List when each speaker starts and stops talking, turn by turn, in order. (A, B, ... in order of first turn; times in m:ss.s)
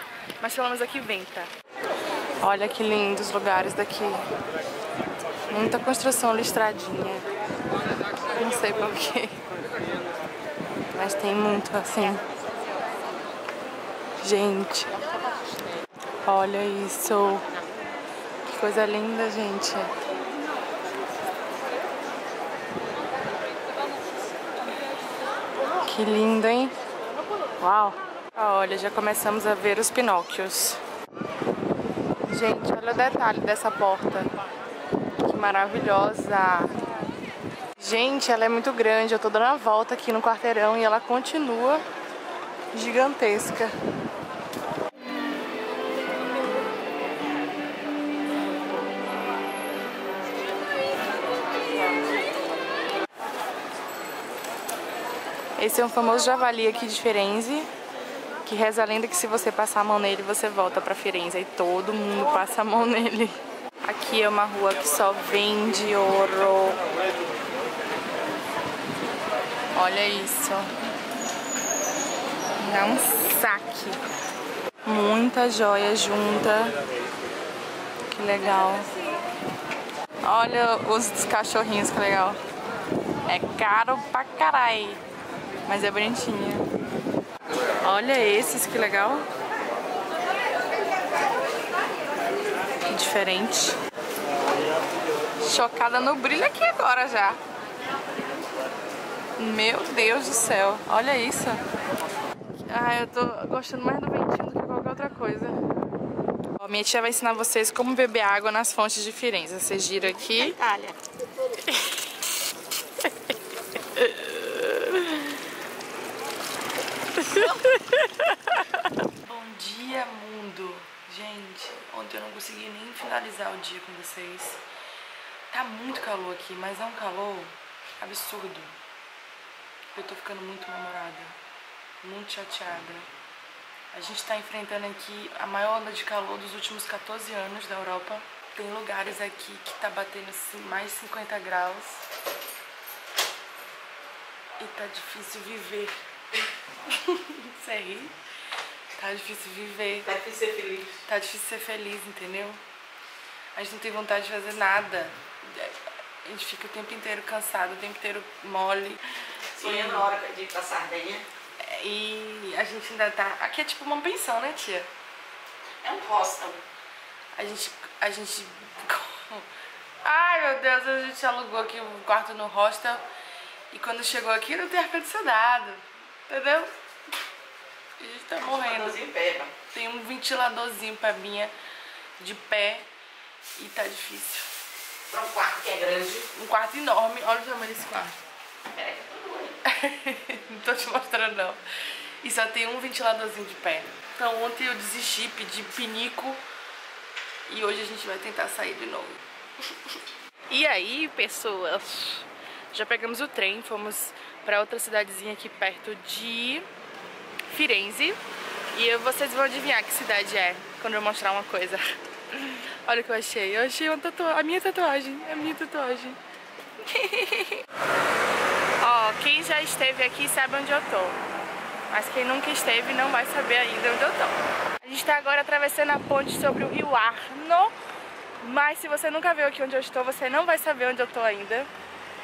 0:00.4-0:01.5 A
0:02.4-0:04.3 A
0:05.5-0:07.3 A
0:08.3-0:09.4 A
0:10.9-0:12.2 A
0:14.2-0:15.0 A
0:16.2-0:17.5 A
0:18.4-0:19.9 A
0:25.8-0:26.7 A
0:27.6-0:30.8 A
0:32.3-0:34.3 A
0:35.2-0:36.7 A
0:37.8-0:41.8 A
0:42.7-0:43.8 A
0:55.6-0:57.7 A
0:58.4-1:06.8 A
1:09.8-1:10.7 A
1:12.6-1:14.0 A
1:14.8-1:16.8 A
1:18.1-1:18.9 A
1:20.2-1:22.4 A
1:23.3-1:25.0 A
1:25.7-1:26.7 A
1:27.8-1:29.2 A
1:32.8-1:33.8 A
1:35.4-1:37.4 A
1:39.4-1:41.6 A
1:42.7-1:45.6 A
1:46.6-1:50.6 A
1:50.3-1:51.0 B
1:51.7-1:52.0 A
1:53.9-1:55.4 A
1:57.2-2:04.6 A
2:05.5-2:08.8 A
2:09.9-2:11.4 A
2:12.0-2:13.1 A
2:13.9-2:22.0 A
2:24.6-2:25.9 A
2:26.9-2:28.2 A
2:29.0-2:30.2 A
2:30.1-2:30.9 B
2:31.0-2:32.6 A
2:33.5-2:40.1 A
2:39.6-2:41.2 B
2:41.6-2:44.9 A
2:45.8-2:46.6 B
2:47.3-2:49.5 A
2:50.0-2:53.1 A
2:53.7-2:56.7 A
2:58.0-2:59.0 A
2:58.6-2:59.5 B
2:59.6-3:01.5 A
3:02.2-3:02.9 A
3:03.6-3:04.5 A
3:05.1-3:06.3 B
3:06.3-3:08.2 A
3:08.7-3:09.5 B
3:09.6-3:11.6 A
3:12.2-3:16.4 A
3:17.5-3:19.2 A
3:20.5-3:26.7 A
3:27.4-3:28.2 A
3:28.7-3:36.2 A
3:36.8-3:37.6 A
3:38.8-3:41.2 A
3:41.9-3:47.8 A
3:48.4-3:51.7 A